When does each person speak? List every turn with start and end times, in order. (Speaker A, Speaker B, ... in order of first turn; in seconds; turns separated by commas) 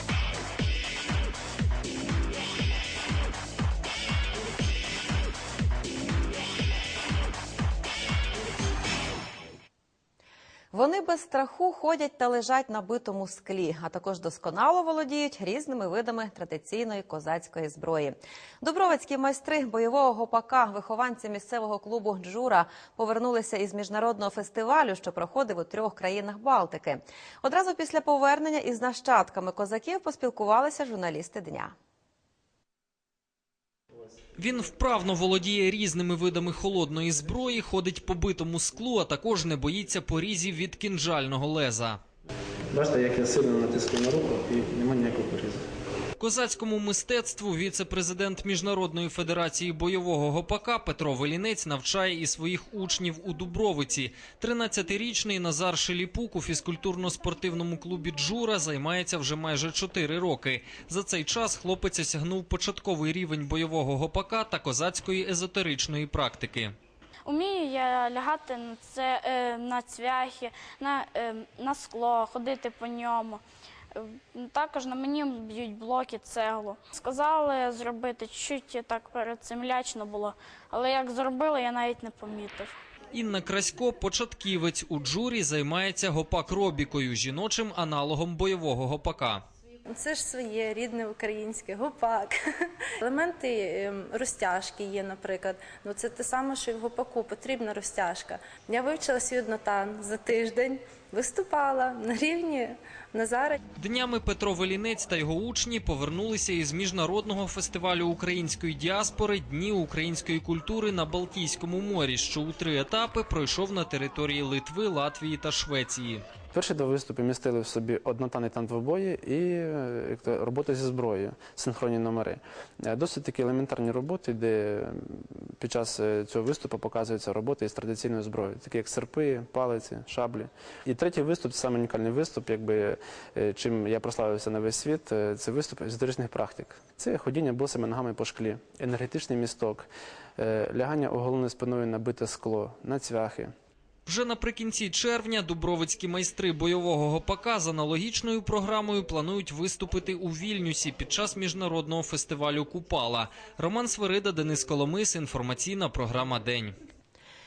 Speaker A: 10.7-31.7, Speaker B: 34.4-42.0, Speaker C: 42.7-45.7, Speaker B: 46.2-66.7, Speaker D: 67.3-73.4, Speaker D: 74.0-82.7, Speaker B: 83.1-89.4, Speaker E: 89.9-92.3, Speaker E: 93.0-103.6, Speaker B: 103.8-116.2, Speaker C: 116.5-139.9, Speaker C: 140.4-143.5, Speaker B: 144.1-156.8